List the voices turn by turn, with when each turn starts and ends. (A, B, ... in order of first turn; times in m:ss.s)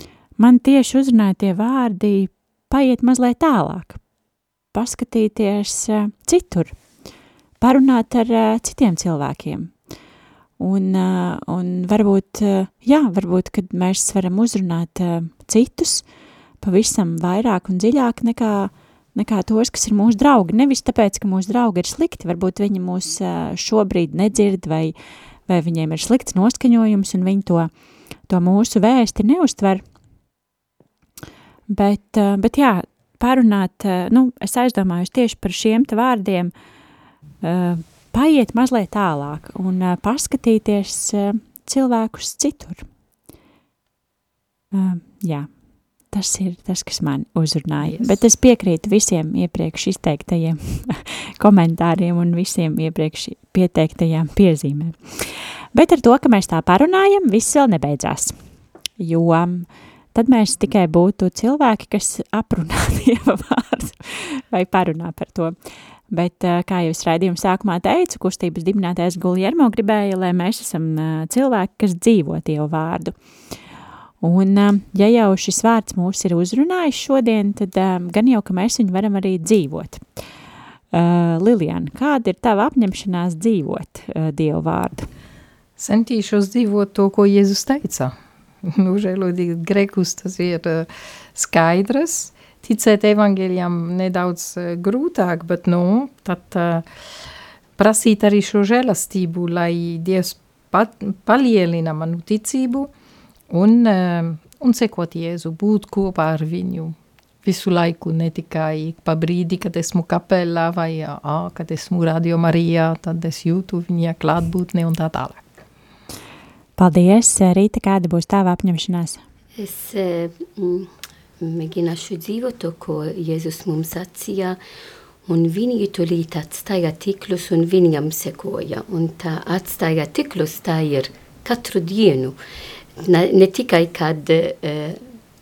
0:00.4-0:04.0 A
0:04.7-0:06.8 A
0:07.6-0:09.8 A
0:10.6-0:16.1 A
0:16.6-0:24.9 A
0:25.5-0:27.7 A
0:28.3-0:29.8 A
0:31.7-0:36.5 A
0:37.4-0:42.9 A
0:44.7-0:45.5 A
0:46.1-0:58.4 A
0:47.8-0:48.1 B
0:59.0-1:05.6 A
1:06.1-1:13.1 A
1:14.2-1:20.0 A
1:20.9-1:25.1 A
1:25.8-1:36.9 B
1:37.8-1:42.9 B
1:43.5-1:55.4 B
1:56.8-1:59.2 A
1:59.6-2:00.9 C
2:01.4-2:04.6 C
2:05.3-2:12.4 C
2:13.0-2:15.0 C